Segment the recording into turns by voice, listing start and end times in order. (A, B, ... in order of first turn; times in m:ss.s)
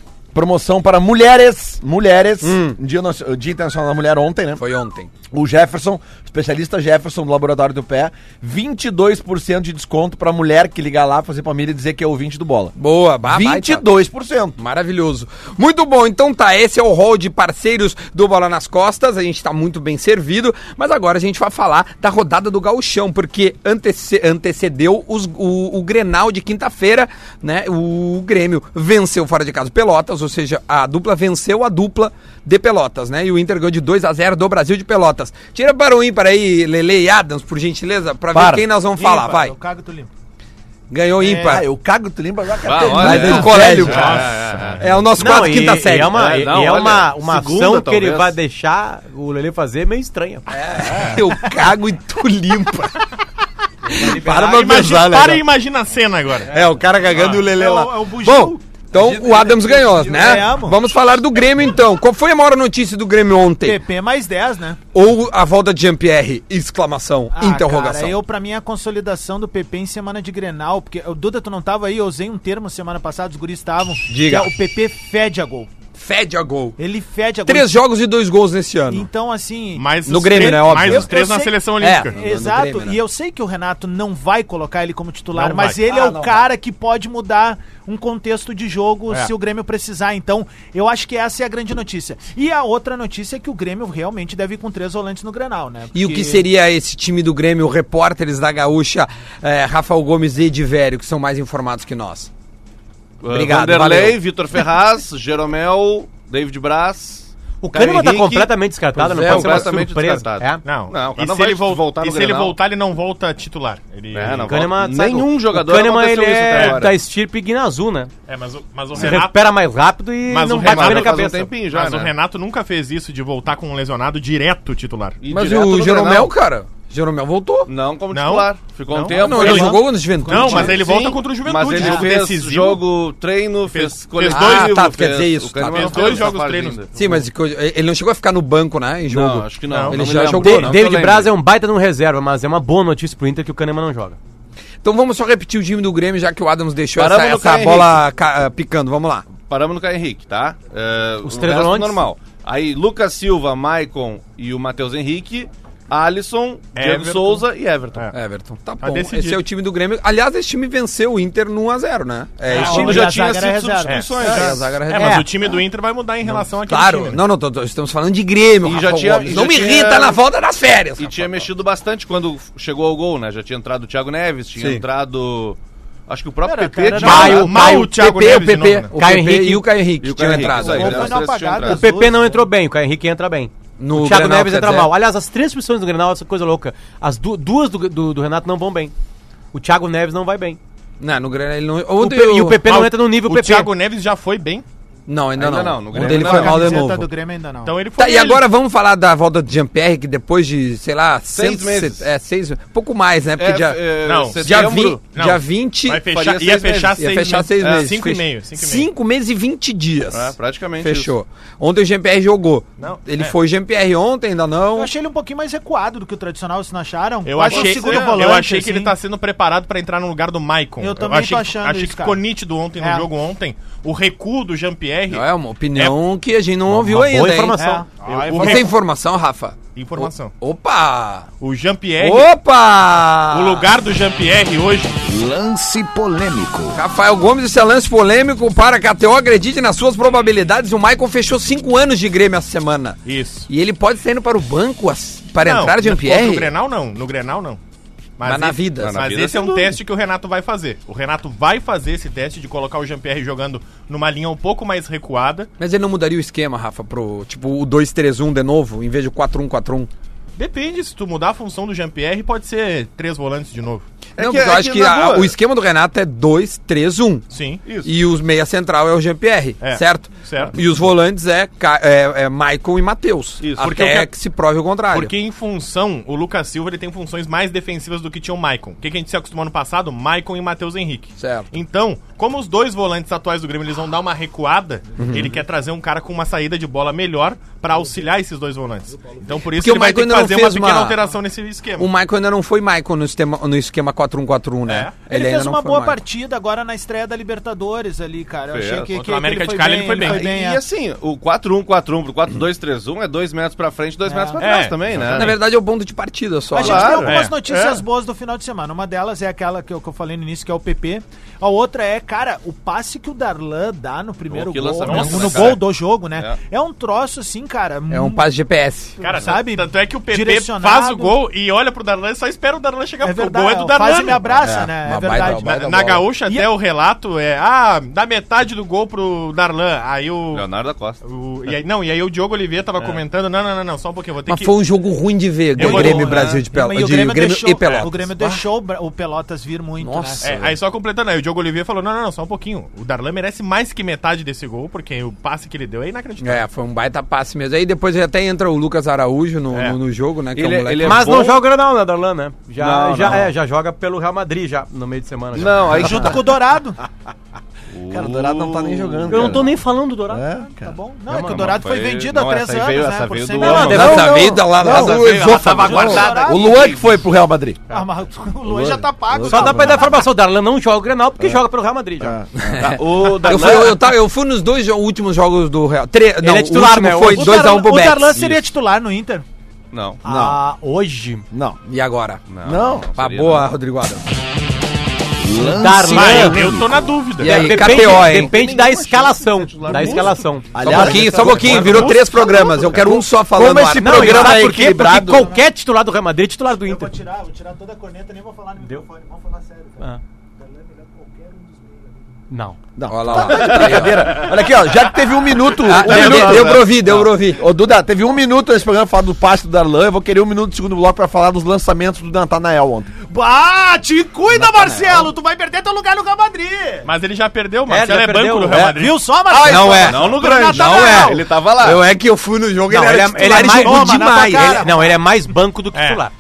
0:00.3-0:04.6 A
0:02.4-0:02.8 B
0:04.6-0:05.1 B
0:05.3-0:12.7 A
0:12.8-0:13.9 B
0:13.3-0:14.6 A
0:14.6-0:39.5 B
0:38.3-0:38.6 A
0:39.0-0:40.1 C
0:40.9-0:41.7 B
0:41.2-0:41.6 C
0:41.4-0:44.1 A
0:42.6-0:45.1 D
0:42.9-0:44.3 B
0:43.7-0:44.9 E
0:44.8-0:46.2 B
0:45.2-0:50.5 F
0:46.0-0:48.4 D
0:50.5-0:52.9 B
0:53.9-0:54.6 F
0:54.0-0:55.4 B
0:54.3-0:56.5 E
0:56.5-1:03.8 B
0:57.1-0:58.6 C
0:58.9-1:00.4 A
1:00.1-1:00.8 C
1:03.6-1:04.8 C
1:04.9-1:08.2 B
1:07.3-1:15.7 C
1:14.1-1:14.5 B
1:16.0-1:16.8 B
1:16.8-1:17.8 C
1:17.4-1:19.1 B
1:18.9-1:21.5 C
1:19.8-1:22.1 E
1:20.1-1:21.1 B
1:21.8-1:23.0 B
1:22.1-1:36.0 C
1:25.3-1:25.8 E
1:25.9-1:26.4 A
1:35.9-1:42.3 B
1:36.1-1:36.4 D
1:43.2-1:52.6 D
1:43.3-1:44.2 B
1:47.6-1:50.6 F
1:49.2-1:49.5 B
1:50.6-1:54.5 E
1:54.1-1:57.0 D
1:54.4-1:58.1 F
1:56.5-1:56.8 E
1:58.3-1:59.4 E
1:59.0-2:01.5 F
2:00.3-2:05.2 E
2:00.5-2:02.1 D
2:05.2-2:06.3 D
2:05.3-2:07.7 B
2:07.7-2:17.2 D
2:08.1-2:12.8 E
2:09.2-2:10.8 B
2:09.4-2:09.7 F
2:13.7-2:14.8 E
2:14.2-2:16.4 B
2:15.6-2:16.8 E
2:17.0-2:20.8 B
2:19.1-2:21.3 D
2:19.7-2:20.4 E
2:20.4-2:24.2 F
2:24.8-2:29.3 B
2:27.0-2:28.0 D
2:29.3-2:38.1 D
2:31.2-2:32.0 F
2:36.8-2:38.2 E
2:38.1-2:43.2 B
2:38.8-2:39.4 E
2:42.5-2:43.0 E
2:42.5-2:44.2 C
2:42.5-2:44.7 D
2:43.8-2:47.2 E
2:44.2-2:45.3 B
2:45.0-2:45.3 F
2:46.2-2:51.5 B
2:48.6-2:50.2 D
2:51.0-2:57.5 D
2:54.6-2:54.8 B
2:56.4-2:57.4 C
2:57.0-2:58.9 E
2:57.0-2:57.9 F
2:57.5-3:01.2 B
2:59.0-2:59.7 F
3:00.0-3:01.9 D
3:00.4-3:02.5 C
3:01.6-3:08.9 F
3:03.8-3:04.9 B
3:09.5-3:10.6 F
3:11.0-3:12.6 B
3:12.0-3:13.7 F
3:12.7-3:14.6 E
3:15.1-3:17.1 B
3:15.4-3:16.8 D
3:15.9-3:17.8 C
3:17.6-3:18.4 E
3:18.0-3:23.8 B
3:21.3-3:22.0 D
3:23.4-3:25.0 D
3:24.0-3:28.9 E
3:24.4-3:26.1 B
3:26.1-3:27.0 D
3:27.0-3:34.9 B
3:27.6-3:27.9 D
3:30.1-3:31.1 D
3:32.8-3:33.3 E
3:34.8-3:38.9 C
3:37.2-3:46.0 E
3:37.5-3:38.3 D
3:40.8-3:42.2 C
3:42.8-3:43.1 C
3:45.1-3:47.6 B
3:46.7-3:47.8 F
3:47.6-3:47.9 C
3:48.0-3:48.7 E
3:48.0-3:48.6 A
3:48.3-3:51.3 B
3:49.8-3:50.3 E
3:51.4-3:52.3 E
3:52.0-3:53.7 B
3:53.3-3:55.0 E
3:55.0-3:56.8 G
3:56.7-4:03.0 B
4:03.1-4:03.5 E
4:03.5-4:06.5 B
4:05.4-4:07.6 E
4:08.2-4:15.5 E
4:08.2-4:09.1 B
4:08.8-4:09.8 D
4:15.6-4:19.9 B
4:20.4-4:23.9 E
4:24.2-4:27.2 B
4:24.2-4:25.3 D
4:27.3-4:27.6 E
4:27.7-4:27.9 D
4:27.8-4:35.1 B
4:29.6-4:30.5 E
4:33.4-4:33.9 D
4:33.7-4:34.1 E
4:34.9-4:51.9 E
4:41.2-4:41.5 B
4:45.0-4:45.4 B
4:49.5-4:51.0 B
4:51.8-4:56.0 B
4:54.7-4:55.0 E
4:55.1-5:00.6 C
4:58.5-4:58.9 D
4:58.9-5:00.2 E
5:00.0-5:05.4 D
5:04.1-5:04.6 C
5:04.4-5:04.8 E
5:05.1-5:07.1 B
5:06.5-5:18.2 C
5:06.6-5:07.2 D
5:07.0-5:07.8 E
5:14.3-5:16.4 D
5:14.8-5:15.6 E
5:17.9-5:19.0 B
5:19.0-5:21.2 C
5:19.0-5:24.2 E
5:23.0-5:26.5 C
5:24.5-5:26.0 B
5:25.2-5:30.5 E
5:30.3-5:31.0 D
5:31.0-5:34.5 E
5:34.3-5:38.4 B
5:35.6-5:36.4 E
5:35.6-5:40.5 C
5:39.8-5:40.5 B
5:40.2-5:46.4 E
5:46.2-5:51.2 B
5:50.4-5:51.4 D
5:50.8-5:56.1 F
5:52.6-5:53.3 D
5:55.3-5:56.3 D
5:55.7-5:56.8 C
5:57.7-5:59.4 D
5:57.9-6:00.8 A
5:59.1-6:00.2 F
6:00.6-6:04.0 C
6:01.1-6:01.4 F
6:01.2-6:07.0 D
6:03.4-6:04.1 F
6:03.7-6:06.1 B
6:03.7-6:07.6 A
6:05.6-6:06.7 C
6:07.7-6:10.0 C
6:08.4-6:09.9 A
6:09.2-6:12.2 F
6:12.0-6:13.6 A
6:12.5-6:18.4 B
6:12.6-6:13.8 D
6:16.2-6:17.4 F
6:17.0-6:19.2 C
6:19.7-6:20.0 D
6:20.0-6:21.2 F
6:20.0-6:20.4 A
6:21.3-6:21.6 A
6:21.6-6:22.2 B
6:22.3-6:23.5 D
6:22.4-6:22.9 A
6:23.0-6:24.0 B
6:25.3-6:26.9 G
6:25.4-6:26.5 A
6:25.4-6:26.5 F
6:25.9-6:27.5 E
6:27.2-6:28.3 B
6:27.2-6:31.8 F
6:27.6-6:30.2 D
6:30.5-6:35.0 A
6:30.6-6:35.3 B
6:31.4-6:32.0 E
6:33.7-6:36.9 F
6:35.1-6:35.4 C
6:36.6-6:42.0 C
6:42.3-6:42.6 F
6:42.8-6:52.9 A
6:42.9-6:44.3 B
6:43.3-6:44.3 D
6:45.6-6:47.4 B
6:45.7-6:47.0 D
6:53.0-6:56.9 C
6:54.3-6:55.1 A
6:56.8-6:59.0 E
6:57.7-6:58.7 F
6:58.6-7:01.3 C
6:59.3-7:00.1 A
6:59.4-7:04.6 B
6:59.6-7:01.9 D
7:02.7-7:06.1 F
7:03.2-7:05.0 C
7:05.7-7:06.0 E